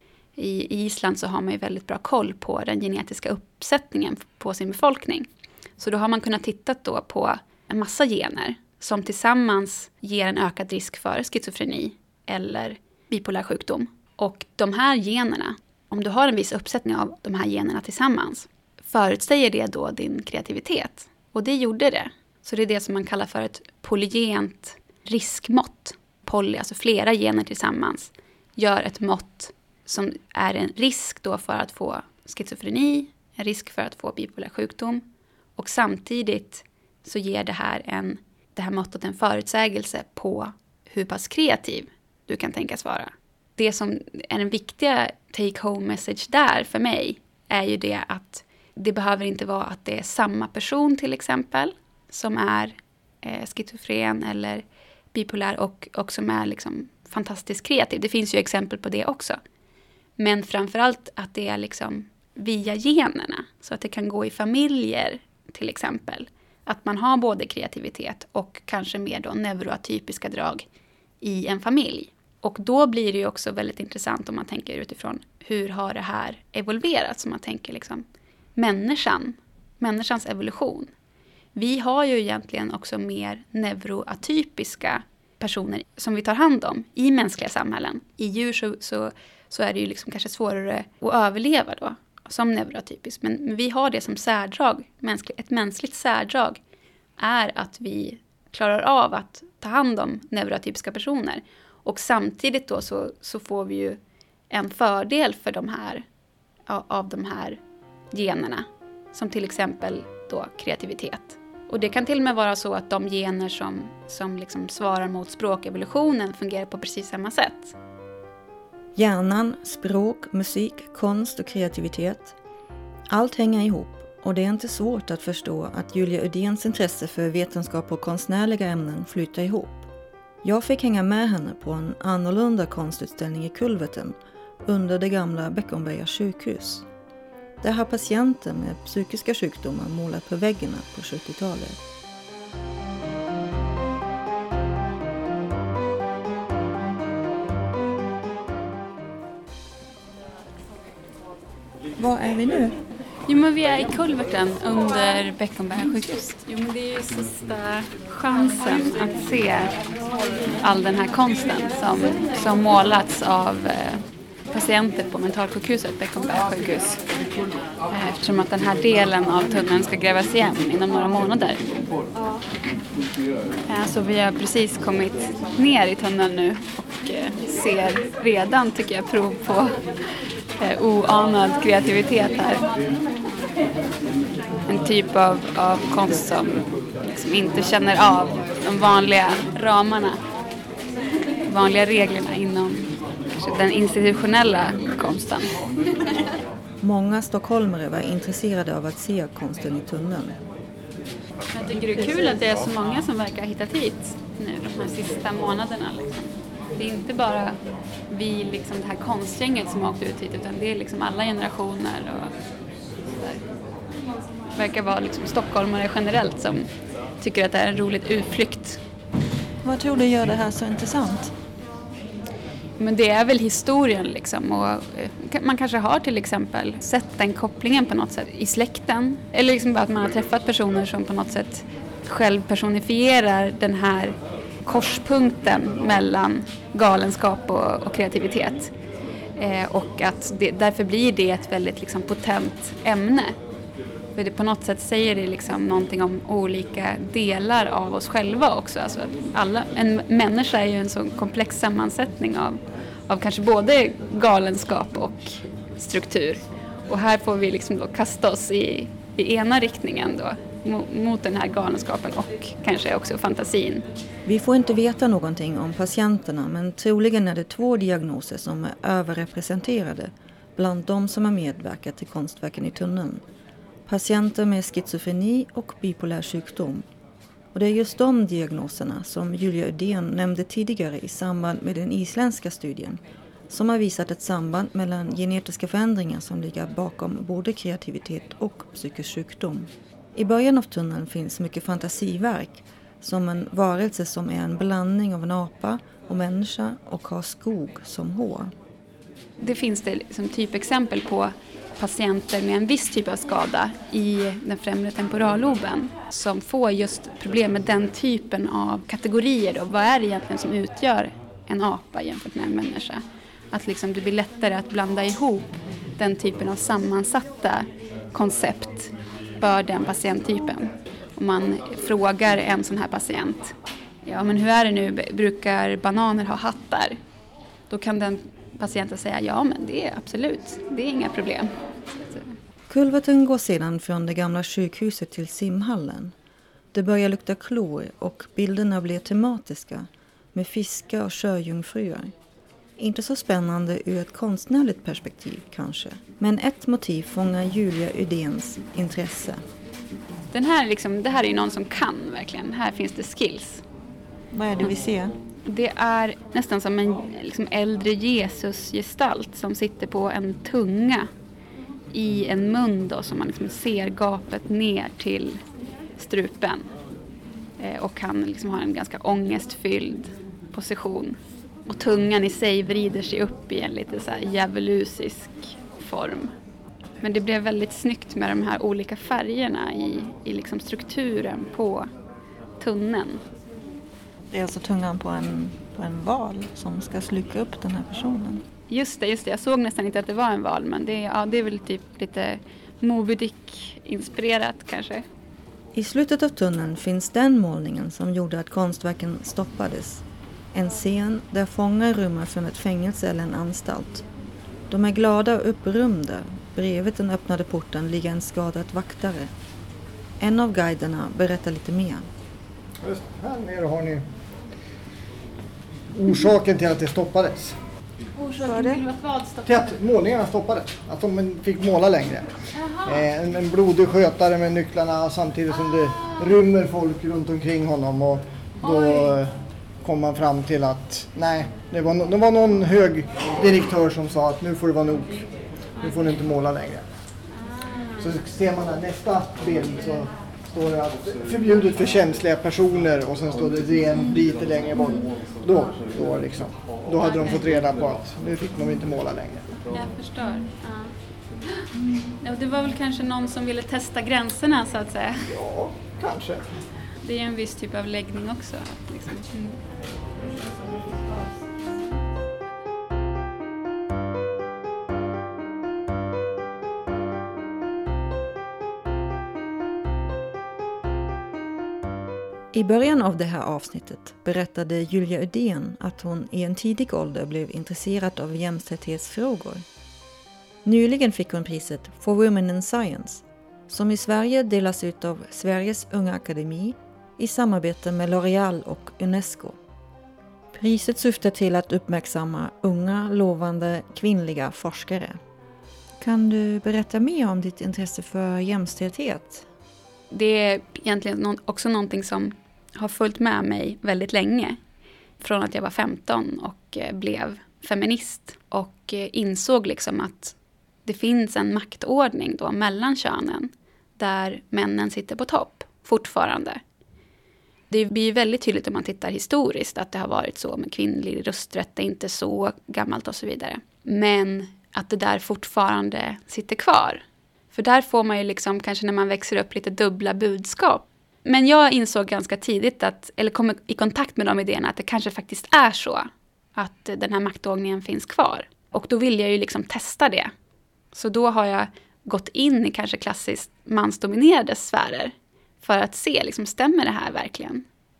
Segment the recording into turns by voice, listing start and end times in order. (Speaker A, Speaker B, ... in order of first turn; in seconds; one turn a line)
Speaker A: 0.4-5.3
Speaker A: 5.8-35.0
Speaker A: 35.6-59.4
Speaker A: 60.2-70.7
Speaker A: 71.2-78.0
Speaker A: 78.5-80.9
Speaker A: 81.5-96.6
Speaker A: 97.2-104.0
Speaker A: 104.5-106.0
Speaker A: 106.7-107.6
Speaker A: 108.1-117.7
Speaker B: 118.9-122.3
Speaker B: 123.1-129.8
Speaker B: 130.4-134.1
Speaker B: 134.7-136.9
Speaker B: 137.6-141.8
Speaker B: 152.0-152.8
Speaker A: 153.3-159.7
Speaker A: 160.6-167.0
Speaker A: 167.9-171.7
Speaker A: 173.7-179.7
Speaker A: 180.6-182.7
Speaker A: 184.7-190.2
Speaker A: 191.5-195.5
Speaker B: 196.8-200.4
Speaker A: 201.5-207.6
Speaker A: 208.1-212.3
Speaker A: 213.1-213.4
Speaker A: 214.5-216.7
Speaker A: 217.2-218.8
Speaker B: 219.6-221.3
Speaker A: 222.8-238.7
Speaker A: 239.4-243.3
Speaker A: 244.1-263.9
Speaker B: 264.2-273.2
Speaker B: 273.9-276.8
Speaker B: 277.5-298.5
Speaker A: 299.4-327.0
Speaker A: 327.7-332.3
Speaker B: 332.7-336.1
Speaker B: 336.7-342.1
Speaker B: 342.8-349.4
Speaker A: 350.3-353.6
Speaker B: 354.3-355.1
Speaker A: 355.4-361.1
Speaker A: 361.9-365.4
Speaker A: 366.0-366.7
Speaker A: 367.6-376.3
Speaker A: 377.0-381.9
Speaker A: 382.6-383.2
Speaker B: 384.3-388.4
Speaker A: 388.7-395.0
Speaker B: 395.7-404.0
Speaker B: 404.7-409.3
Speaker B: 410.2-412.1
Speaker C: 412.8-414.0
Speaker C: 415.9-417.6
Speaker A: 418.2-419.4
Speaker B: 418.5-418.8
Speaker C: 419.4-429.3
Speaker C: 429.8-435.2
Speaker C: 435.8-436.8
Speaker C: 438.0-449.5
Speaker A: 449.7-450.9
Speaker A: 452.2-455.3
Speaker C: 455.3-456.5
Speaker A: 457.0-459.6
Speaker B: 472.5-479.6
Speaker B: 480.6-489.6
Speaker B: 490.5-495.2
Speaker B: 496.0-499.4
Speaker A: 500.1-504.6
Speaker A: 505.2-516.6
Speaker A: 517.7-540.3
Speaker A: 540.9-547.6